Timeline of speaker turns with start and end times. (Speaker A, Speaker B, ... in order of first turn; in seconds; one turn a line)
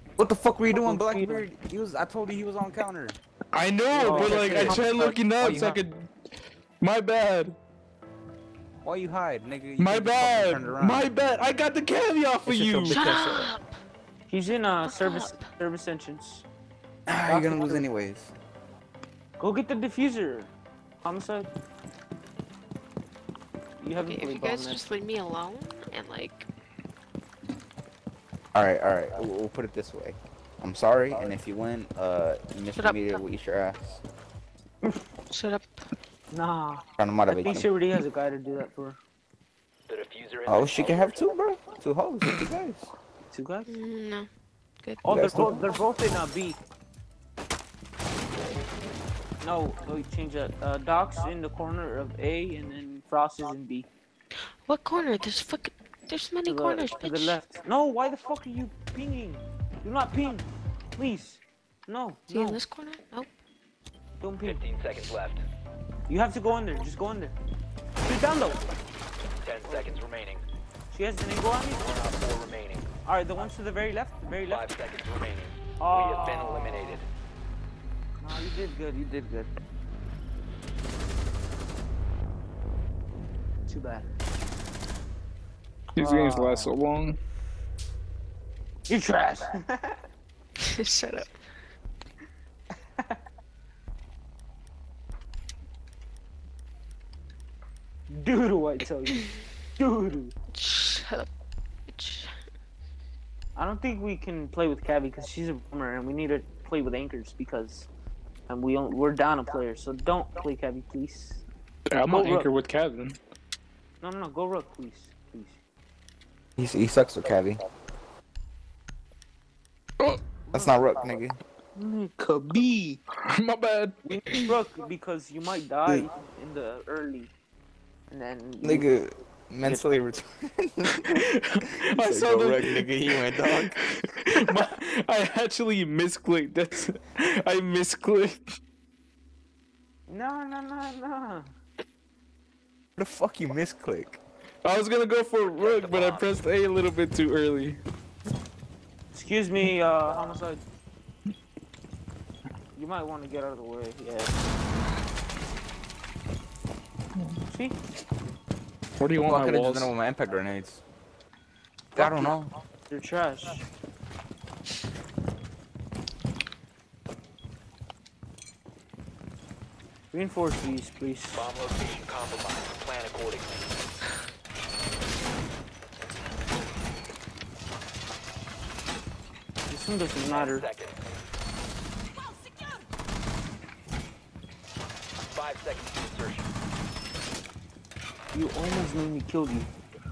Speaker A: 0.2-3.2
Speaker B: 0.7-1.4
Speaker C: 3.5-6.1
Speaker B: 3.9-4.8
Speaker A: 4.1-5.8
Speaker C: 6.8-7.5
Speaker A: 8.8-11.1
Speaker C: 9.8-13.1
Speaker A: 12.4-13.5
Speaker D: 12.9-13.6
Speaker B: 14.3-16.4
Speaker D: 14.8-15.4
Speaker A: 17.1-18.3
Speaker B: 17.2-17.9
Speaker B: 19.4-21.5
Speaker B: 23.8-24.8
Speaker D: 24.0-26.5
Speaker A: 28.5-34.0
Speaker D: 32.8-33.2
Speaker D: 35.3-35.9
Speaker B: 36.3-39.0
Speaker A: 37.0-37.7
Speaker E: 39.9-41.1
Speaker A: 40.5-42.9
Speaker B: 43.3-43.7
Speaker D: 43.7-44.3
Speaker D: 44.8-45.7
Speaker B: 45.0-46.6
Speaker A: 45.1-45.6
Speaker B: 49.4-53.9
Speaker D: 54.6-57.4
Speaker B: 56.5-62.6
Speaker D: 62.3-63.3
Speaker B: 64.2-64.6
Speaker E: 64.4-65.4
Speaker B: 66.1-67.3
Speaker B: 68.0-68.7
Speaker E: 69.4-70.4
Speaker B: 69.6-70.0
Speaker B: 70.9-71.9
Speaker E: 71.7-72.9
Speaker B: 73.0-74.7
Speaker E: 74.5-77.1
Speaker B: 75.8-77.0
Speaker B: 78.2-79.5
Speaker B: 83.7-84.1
Speaker C: 86.0-87.2
Speaker B: 86.0-86.7
Speaker B: 88.9-90.0
Speaker D: 90.6-91.4
Speaker B: 98.1-100.3
Speaker D: 100.5-101.3
Speaker D: 101.9-102.4
Speaker B: 103.6-107.9
Speaker B: 108.5-111.4
Speaker C: 111.9-113.2
Speaker B: 112.1-112.5
Speaker B: 114.0-115.6
Speaker A: 116.6-117.6
Speaker B: 120.5-120.8
Speaker A: 120.5-121.4
Speaker B: 121.8-123.0
Speaker C: 123.2-123.9
Speaker B: 124.0-127.3
Speaker B: 128.1-128.9
Speaker A: 128.6-133.9
Speaker C: 131.1-138.4
Speaker B: 140.1-141.5
Speaker A: 142.9-144.2
Speaker C: 144.6-147.8
Speaker E: 145.5-146.3
Speaker B: 149.1-150.6
Speaker B: 152.8-154.4
Speaker B: 157.5-157.8
Speaker C: 159.0-159.9
Speaker A: 159.2-160.8
Speaker A: 161.9-162.5
Speaker B: 161.9-162.3
Speaker B: 162.9-163.7
Speaker B: 170.1-171.4
Speaker E: 171.3-173.8
Speaker B: 179.7-180.7
Speaker E: 180.3-181.0
Speaker E: 185.3-186.5
Speaker B: 188.3-189.7